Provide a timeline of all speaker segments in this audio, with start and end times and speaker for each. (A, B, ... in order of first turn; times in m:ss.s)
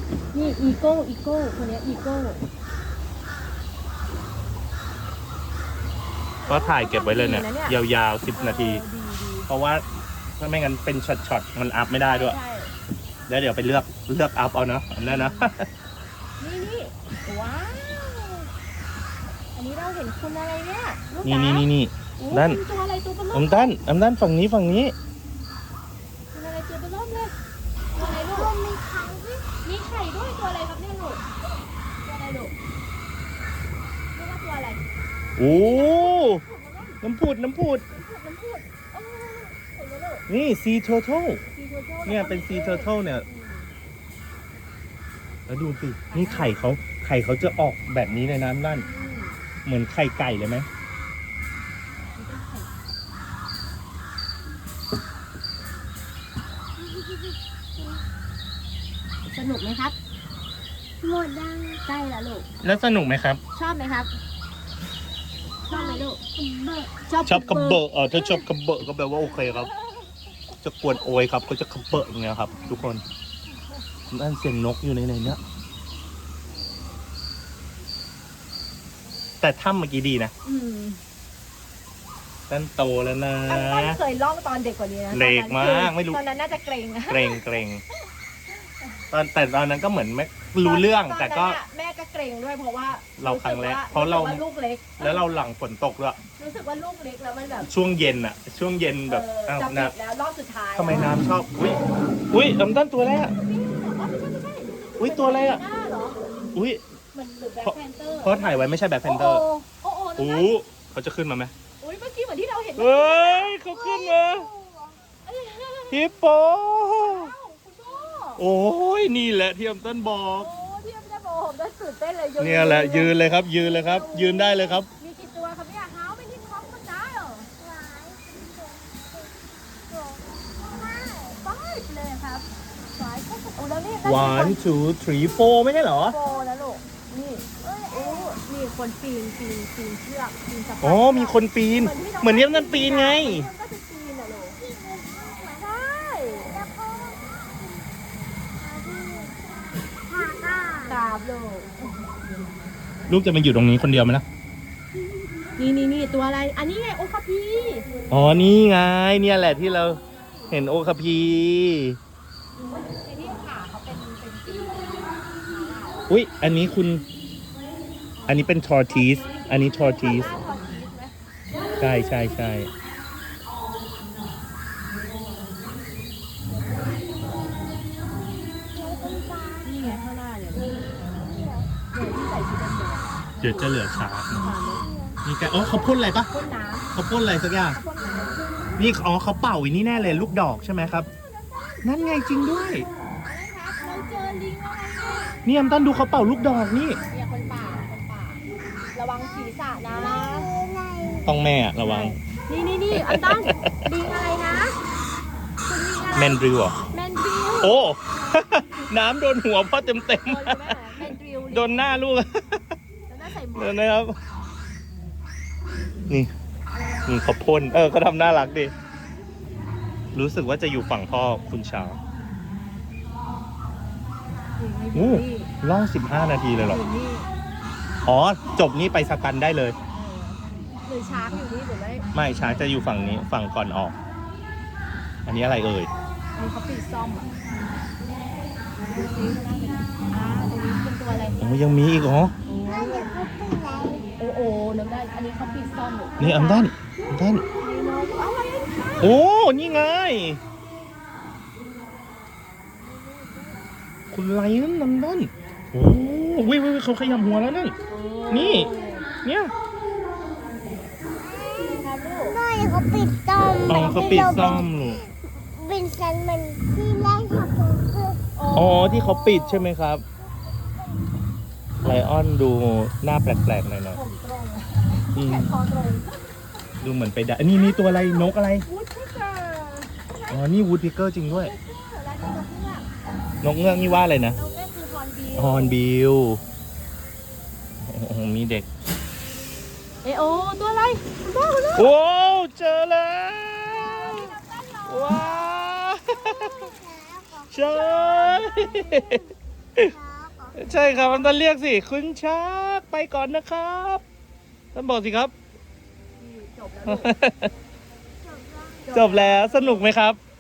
0:00.3-0:02.4 A
0:06.5-0:07.8 A
0:06.5-0:08.8 B
0:08.4-0:09.5 A
0:09.5-0:09.8 B
0:10.4-0:12.4 B
0:12.1-0:12.7 A
0:13.3-0:15.7 B
0:15.0-0:15.5 A
0:16.4-0:18.5 A
0:19.6-0:23.7 A
0:21.2-0:22.6 B
0:23.3-0:25.0 B
0:26.3-0:27.3 A
0:28.0-0:28.5 A
0:28.0-0:29.5 C
0:29.6-0:31.3 A
0:32.0-0:32.5 A
0:34.2-0:34.8 A
0:35.4-0:36.4 B
0:35.4-0:37.0 A
0:37.0-0:37.8 B
0:37.9-0:40.3 A
0:40.3-0:41.4 B
0:41.5-0:43.7 A
0:42.1-0:43.2 B
0:45.5-0:48.9 B
0:46.1-0:46.7 A
0:48.8-0:49.4 A
0:49.6-0:50.7 B
0:52.1-0:52.7 A
0:57.0-0:57.3 C
0:59.3-1:00.0 A
1:01.0-1:01.8 C
1:01.8-1:02.5 A
1:02.6-1:03.4 B
1:03.5-1:04.1 A
1:05.7-1:06.2 A
1:05.7-1:07.0 C
1:07.0-1:08.4 A
1:07.3-1:09.7 B
1:10.6-1:13.0 B
1:14.1-1:15.4 B
1:19.4-1:20.3 B
1:20.4-1:21.0 A
1:22.5-1:24.0 B
1:23.5-1:27.5 A
1:25.1-1:26.2 B
1:27.1-1:27.8 B
1:29.1-1:31.6 B
1:30.6-1:35.2 A
1:33.2-1:34.4 B
1:35.0-1:36.2 B
1:36.4-1:37.7 A
1:37.6-1:39.9 B
1:39.1-1:41.2 A
1:40.8-1:41.8 B
1:42.3-1:43.4 B
1:43.2-1:46.2 A
1:45.0-1:45.6 B
1:46.5-1:46.8 B
1:47.1-1:50.5 A
1:47.6-1:49.4 B
1:50.2-1:51.5 B
1:51.8-1:53.6 A
1:52.8-1:54.5 B
1:53.6-1:55.0 C
1:55.2-1:56.1 A
1:55.9-1:57.3 B
1:57.0-1:58.4 A
1:58.4-2:00.5 B
2:00.3-2:07.5 A
2:02.4-2:04.9 B
2:07.6-2:09.3 C
2:09.9-2:11.4 C
2:11.3-2:14.6 A
2:14.0-2:16.2 B
2:16.1-2:24.6 A
2:17.6-2:18.4 C
2:20.8-2:23.5 B
2:24.6-2:25.6 C
2:25.5-2:26.5 A
2:26.5-2:27.9 C
2:28.6-2:29.4 C
2:30.1-2:31.0 C
2:30.9-2:31.8 A
2:33.1-2:34.2 B
2:35.6-2:37.9 A
2:38.1-2:42.0 B
2:40.0-2:40.5 A
2:42.8-2:46.1 A
2:46.1-2:47.0 B
2:48.3-2:50.4 B
2:49.0-2:51.1 A
2:51.8-2:52.7 B
2:58.7-2:59.8 C
2:59.6-3:00.8 A
3:01.2-3:01.7 C
3:01.8-3:03.7 A
3:03.4-3:04.5 B
3:04.3-3:04.9 A
3:04.8-3:05.2 C
3:05.2-3:06.3 B
3:06.3-3:06.9 A
3:06.9-3:07.8 B
3:07.7-3:08.4 A
3:08.8-3:11.1 B
3:11.8-3:12.9 B
3:13.2-3:15.4 A
3:15.4-3:17.0 B
3:17.1-3:18.4 A
3:18.9-3:20.6 A
3:19.4-3:21.3 C
3:21.3-3:22.2 B
3:21.8-3:24.8 A
3:23.0-3:23.9 B
3:25.6-3:27.8 A
3:26.1-3:26.8 B
3:27.6-3:32.7 B
3:30.2-3:31.8 A
3:33.1-3:33.8 A
3:33.6-3:34.2 B
3:37.1-3:38.7 B
3:40.1-3:42.0 B
3:44.6-3:45.5 A
3:44.9-3:46.8 B
3:46.6-3:47.3 A
3:48.0-3:49.8 B
3:49.9-3:52.1 A
3:52.1-3:54.0 B
3:55.3-3:55.9 B
3:56.4-3:57.3 A
3:59.0-4:01.4 A
4:01.4-4:02.3 B
4:02.4-4:03.1 A
4:02.7-4:04.1 C
4:04.2-4:06.7 A
4:06.2-4:07.4 B
4:07.6-4:09.2 A
4:09.0-4:10.4 B
4:14.1-4:17.8 B
4:17.9-4:19.1 A
4:18.3-4:18.7 B
4:19.2-4:19.5 B
4:21.2-4:24.7 C
4:21.6-4:22.4 A
4:23.7-4:25.1 B
4:25.4-4:28.2 C
4:28.4-4:29.7 A
4:28.5-4:30.0 B
4:31.8-4:34.0 B
4:33.9-4:36.3 A
4:35.2-4:35.5 B
4:36.8-4:38.7 B
4:37.7-4:40.0 A
4:40.3-4:41.5 B
4:41.2-4:42.8 A
4:43.4-4:44.4 B
4:43.6-4:45.8 A
4:45.4-4:46.4 B
4:47.9-4:48.7 B
4:50.0-4:51.9 A
4:51.8-4:54.3 B
4:53.8-4:55.7 A
4:54.9-4:56.7 B
4:56.1-4:59.1 C
4:57.5-4:59.9 B
4:58.0-4:58.7 A
4:59.8-5:01.1 C
5:00.6-5:04.0 B
5:04.8-5:05.3 B
5:06.2-5:07.1 A
5:06.9-5:07.5 B
5:08.2-5:09.0 C
5:08.8-5:09.9 A
5:08.9-5:10.2 B